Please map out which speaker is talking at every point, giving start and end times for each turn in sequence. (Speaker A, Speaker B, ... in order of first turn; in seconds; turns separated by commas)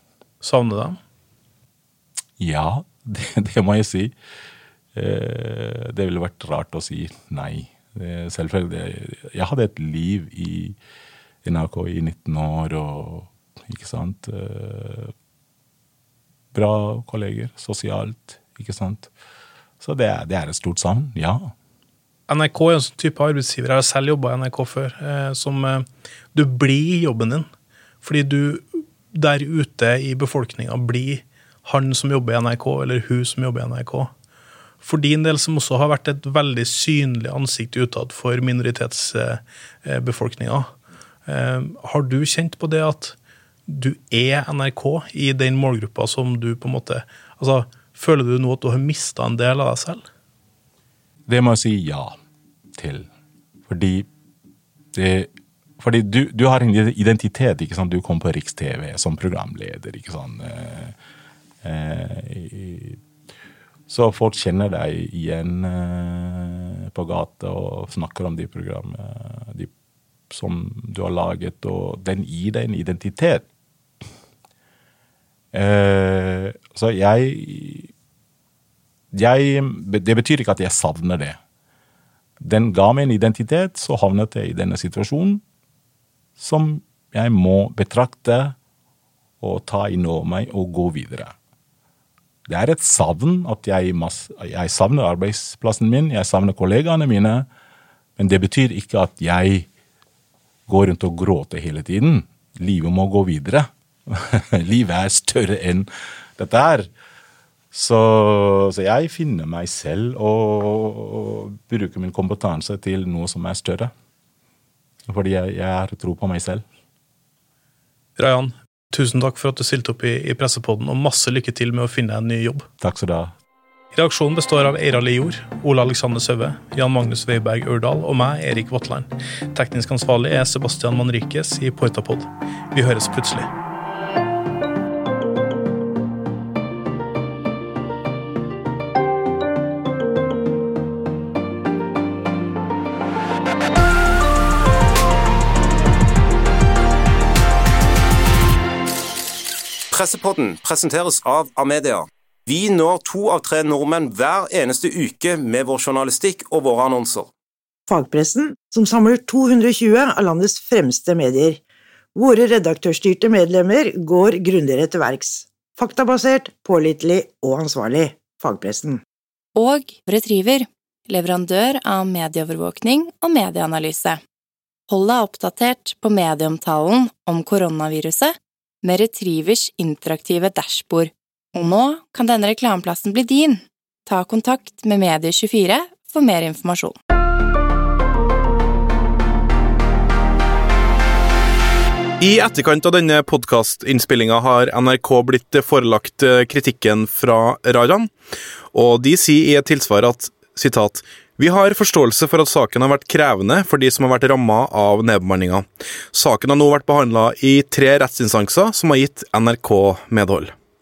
Speaker A: 0.4-1.0, Speaker B: 2.4-4.1, Speaker B: 4.9-10.8, Speaker B: 11.4-15.1, Speaker B: 16.5-19.1, Speaker B: 19.8-21.5, Speaker A: 22.3-27.5, Speaker A: 28.0-34.1, Speaker A: 34.8-40.7, Speaker A: 41.2-50.0, Speaker B: 51.3-52.1, Speaker B: 52.8-53.1, Speaker B: 53.7-54.1, Speaker B: 54.9-60.9, Speaker B: 61.6-63.0, Speaker B: 63.9-69.7, Speaker B: 70.3-73.4, Speaker B: 75.5-77.9, Speaker B: 79.1-81.4, Speaker B: 82.4-85.4, Speaker B: 86.4-88.5, Speaker B: 89.4-91.3, Speaker B: 92.5-97.5, Speaker B: 98.2-99.7, Speaker B: 100.7-106.9, Speaker B: 107.7-113.9, Speaker B: 115.1-116.6, Speaker A: 118.2-122.7, Speaker B: 122.8-123.3, Speaker A: 123.9-133.5, Speaker C: 149.9-157.3, Speaker D: 157.9-161.6, Speaker D: 162.1-169.0, Speaker E: 169.6-174.2, Speaker E: 174.9-187.0, Speaker F: 192.2-198.1, Speaker F: 198.7-210.5